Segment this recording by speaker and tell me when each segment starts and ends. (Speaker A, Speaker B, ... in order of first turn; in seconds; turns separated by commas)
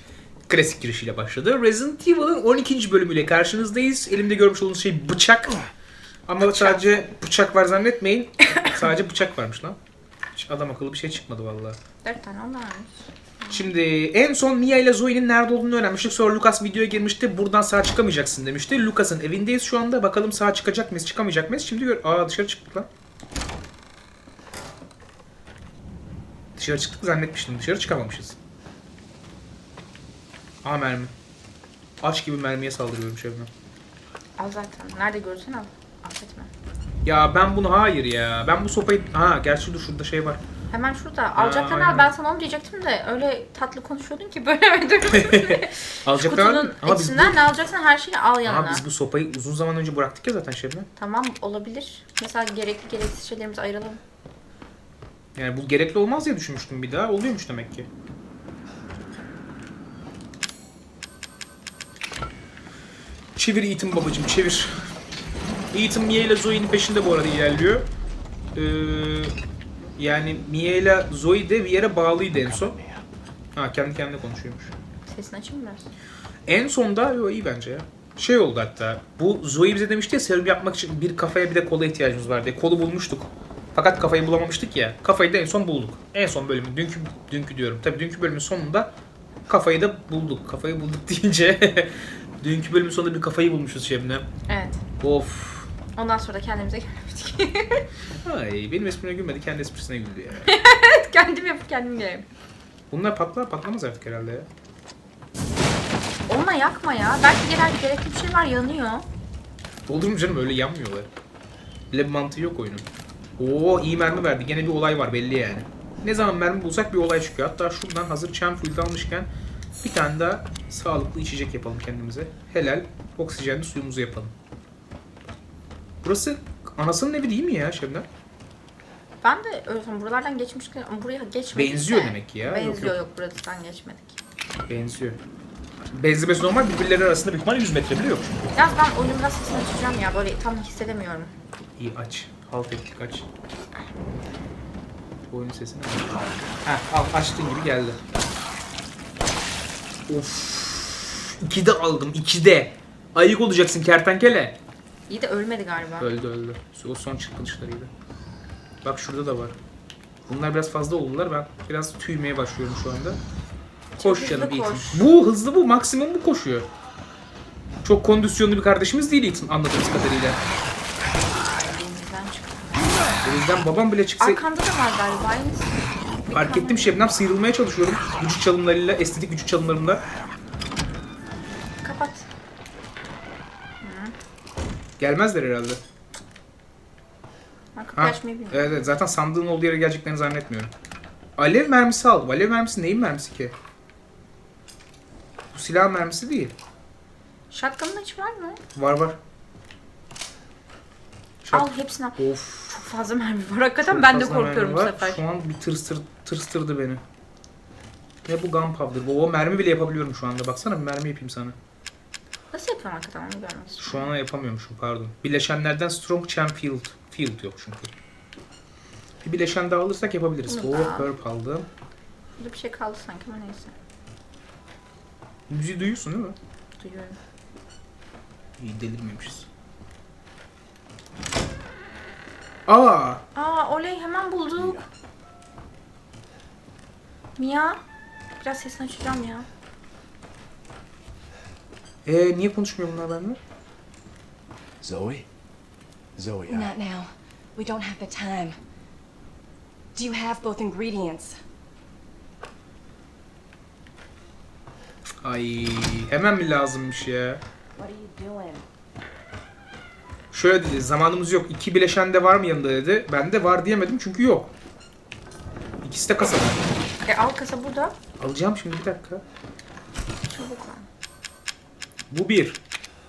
Speaker A: 0.5-5.6, Speaker A: 6.3-9.8, Speaker B: 6.4-7.0, Speaker A: 10.3-11.8, Speaker B: 12.0-13.7, Speaker A: 13.5-22.9, Speaker A: 26.6-28.4, Speaker A: 30.6-31.1, Speaker A: 32.0-33.5, Speaker B: 34.4-36.5, Speaker A: 37.0-40.4, Speaker B: 40.7-48.8, Speaker A: 41.4-42.1, Speaker A: 45.1-47.4, Speaker A: 48.5-50.9, Speaker B: 51.0-54.0, Speaker A: 55.4-57.9, Speaker A: 63.4-64.8, Speaker A: 65.7-67.9, Speaker A: 68.5-69.3, Speaker A: 70.0-72.8, Speaker C: 72.3-73.1, Speaker A: 73.5-74.7, Speaker B: 75.1-75.9, Speaker A: 76.5-88.9, Speaker A: 89.5-94.3, Speaker B: 94.5-94.8, Speaker A: 95.0-95.7, Speaker B: 96.0-97.8, Speaker A: 98.2-100.5, Speaker B: 100.5-102.3, Speaker A: 102.9-104.5, Speaker B: 106.3-109.1, Speaker A: 109.9-111.1, Speaker A: 111.9-112.9, Speaker A: 113.4-119.3, Speaker A: 119.8-124.3, Speaker A: 126.0-128.1, Speaker B: 129.2-134.2, Speaker A: 131.5-133.0, Speaker A: 134.7-135.2, Speaker A: 135.9-138.5, Speaker B: 138.6-141.3, Speaker A: 141.8-143.3, Speaker A: 145.3-148.0, Speaker A: 150.1-154.6, Speaker B: 155.1-156.1, Speaker A: 156.0-157.9, Speaker A: 158.8-159.6, Speaker A: 160.3-163.2, Speaker B: 164.0-165.1, Speaker A: 164.0-166.7, Speaker A: 167.8-170.4, Speaker B: 171.4-172.8, Speaker A: 173.2-174.4, Speaker B: 174.2-175.7, Speaker B: 176.3-177.0, Speaker A: 176.3-180.0, Speaker B: 181.8-182.3, Speaker B: 183.8-184.1, Speaker A: 185.0-185.8, Speaker B: 187.8-188.8, Speaker A: 188.0-190.7, Speaker A: 191.4-193.5, Speaker A: 195.5-196.5, Speaker B: 197.5-198.6, Speaker A: 198.8-199.2, Speaker A: 201.4-202.8, Speaker B: 201.5-205.2, Speaker A: 203.9-207.0, Speaker A: 208.3-211.6, Speaker B: 212.5-214.1, Speaker A: 213.8-217.9, Speaker A: 219.2-221.7, Speaker B: 220.5-221.1, Speaker B: 222.4-223.7, Speaker A: 225.5-226.4, Speaker B: 226.8-227.2, Speaker A: 228.6-229.5, Speaker A: 232.7-233.2, Speaker B: 233.3-234.8, Speaker C: 234.6-234.9, Speaker B: 237.4-237.8, Speaker B: 238.4-239.5, Speaker A: 242.1-243.4, Speaker C: 244.8-245.3, Speaker C: 246.2-246.7, Speaker D: 246.5-248.6, Speaker D: 249.9-251.4, Speaker A: 255.2-257.4, Speaker D: 257.8-258.6, Speaker A: 260.3-264.5, Speaker A: 265.8-266.6, Speaker B: 267.1-268.0, Speaker A: 268.2-269.2, Speaker B: 270.3-270.9, Speaker A: 272.1-272.6